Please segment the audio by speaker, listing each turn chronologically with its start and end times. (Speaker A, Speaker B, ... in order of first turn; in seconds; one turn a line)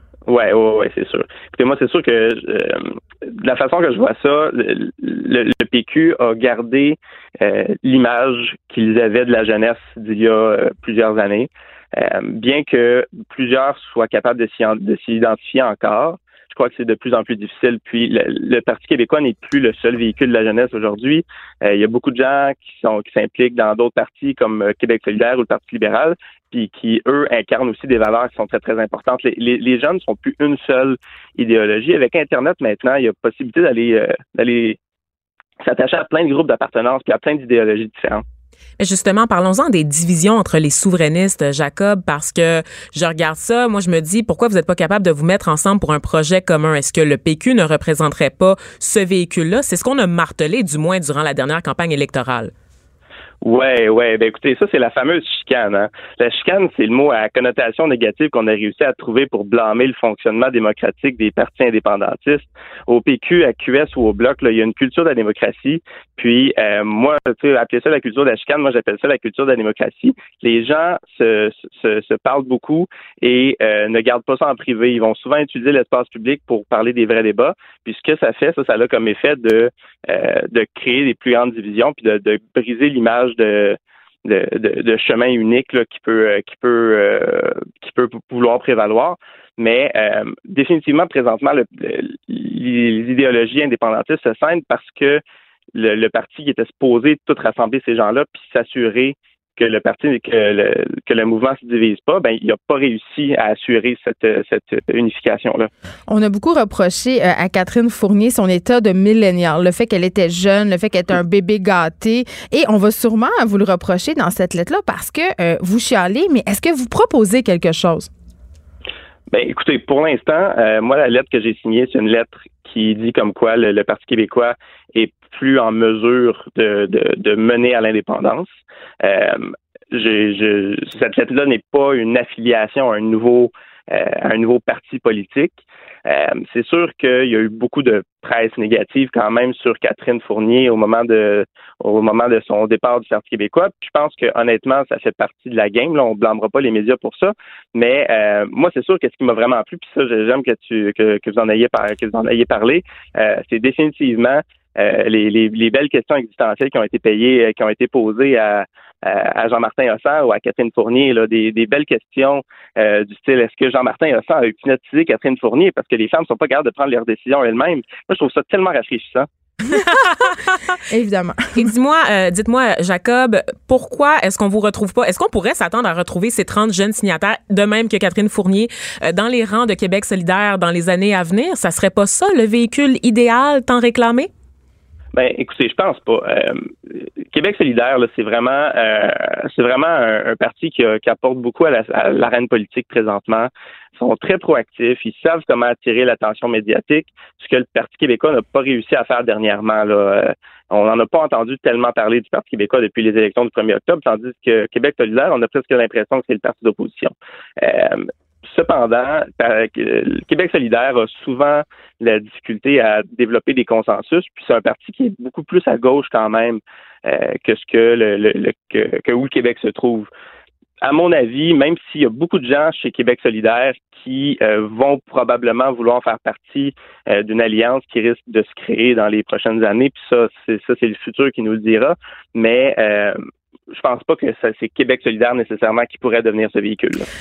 Speaker A: 0.3-34.8
Speaker A: 35.6-38.2
Speaker B: 38.8-52.5
Speaker A: 53.4-95.2
Speaker A: 95.8-105.7
Speaker C: 106.1-118.1
Speaker A: 119.3-128.5
Speaker A: 129.0-169.3
Speaker C: 169.7-170.4
Speaker B: 169.8-170.2
Speaker C: 170.9-171.7
Speaker B: 171.6-184.3
Speaker A: 185.1-186.7
Speaker A: 187.3-220.1
Speaker A: 220.8-233.2
Speaker A: 233.7-237.1